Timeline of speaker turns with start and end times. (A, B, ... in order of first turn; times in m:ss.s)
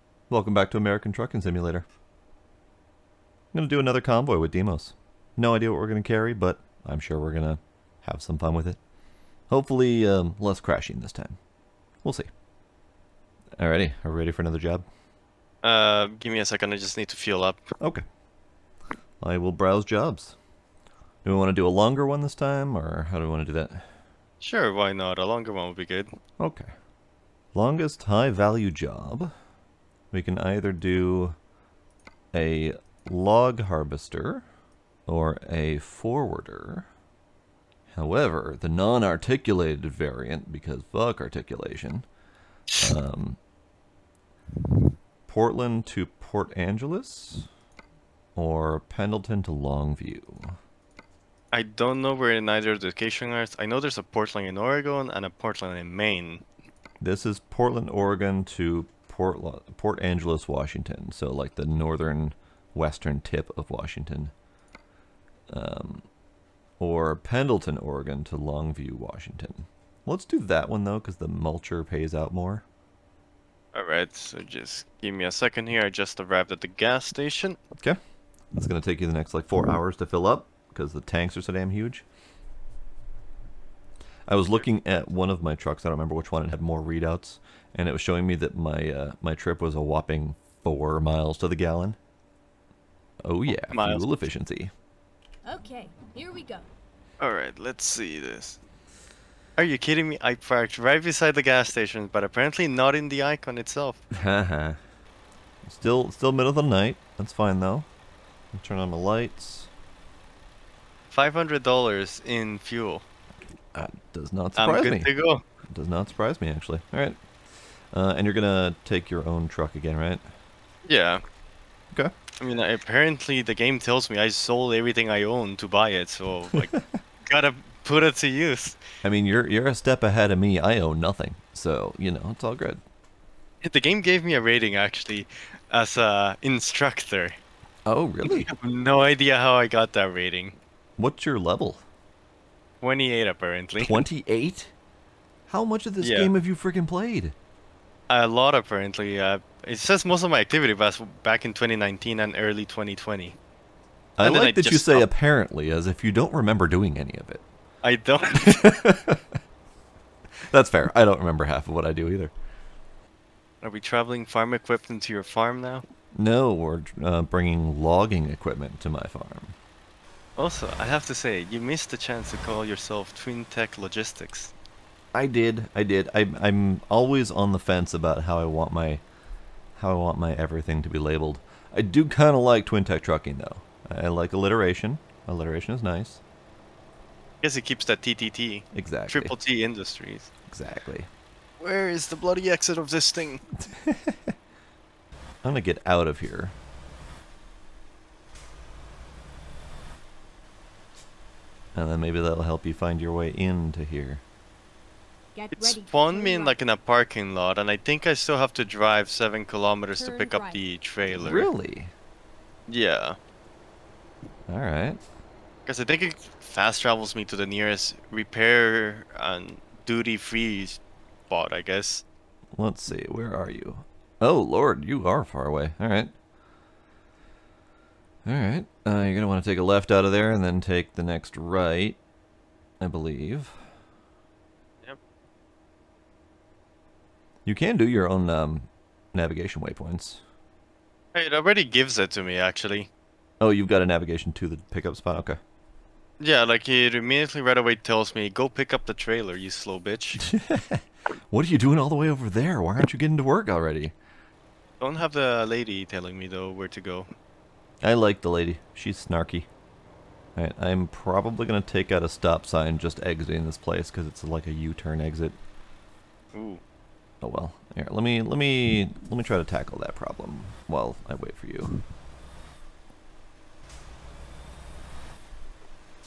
0:00.3-0:01.8 A
0:03.5-0:08.8 A
0:09.5-0:11.4 A
0:12.0-0:12.3 A
0:13.6-0:14.8 A
0:15.6-0:17.6 B
0:17.8-0:18.0 A
0:19.2-0:20.4 A
0:21.2-0:23.9 A
0:24.4-0:26.1 B
0:26.4-0:26.7 A
0:27.5-0:29.3 A
0:30.1-0:31.4 A
0:32.3-0:34.4 A
0:35.1-0:36.9 A
0:37.9-0:42.0 A
0:42.8-0:43.4 A
0:45.3-0:47.5 A
0:48.4-0:50.6 A
0:51.5-0:56.4 B
0:57.0-1:04.3 A
1:05.5-1:06.0 A
1:06.8-1:12.6 A
1:13.7-1:17.6 B
1:18.5-1:22.0 A
1:24.3-1:32.0 A
1:33.2-1:34.7 A
1:33.7-1:34.1 B
1:35.4-1:36.7 C
1:37.2-1:38.6 B
1:39.6-1:44.0 B
1:44.1-1:44.8 A
1:45.6-1:47.9 A
1:48.5-1:49.7 A
1:51.1-1:53.0 B
1:53.7-1:55.1 A
1:54.6-1:55.4 B
1:55.7-1:57.2 A
1:57.9-2:00.2 A
2:00.8-2:01.2 B
2:02.4-2:06.7 B
2:07.3-2:08.8 B
2:09.0-2:12.8 A
2:13.6-2:17.4 B
2:17.8-2:18.5 A
2:18.2-2:20.6 B
2:21.0-2:21.8 A
2:22.8-2:24.0 B
2:23.8-2:24.7 A
2:25.5-2:27.3 A
2:26.0-2:26.3 B
2:28.1-2:33.4 B
2:34.2-2:37.4 A
2:34.2-2:35.1 B
2:37.8-2:38.7 B
2:38.3-2:39.3 A
2:40.4-2:42.3 A
2:43.6-2:45.8 B
2:46.1-2:49.5 A
2:50.4-2:54.5 B
2:55.1-2:59.0 A
2:59.8-3:06.2 A
3:07.4-3:10.3 B
3:08.7-3:09.3 A
3:10.5-3:11.1 A
3:11.6-3:13.4 B
3:13.6-3:14.3 A
3:15.4-3:16.5 A
3:21.7-3:24.2 A
3:25.3-3:26.6 C
3:25.5-3:31.5 B
3:30.0-3:30.6 C
3:31.2-3:31.9 A
3:32.7-3:33.2 B
3:34.5-3:35.0 A
3:35.6-3:42.0 B
3:42.5-3:46.1 A
3:48.2-3:52.0 A
3:52.8-3:53.6 A
3:57.4-4:00.2 A
4:01.1-4:02.9 B
4:03.4-4:05.4 A
4:06.2-4:10.2 B
4:10.2-4:13.9 A
4:14.8-4:17.1 B
4:17.8-4:19.5 A
4:20.4-4:25.4 A
4:26.3-4:26.6 B
4:27.2-4:31.8 A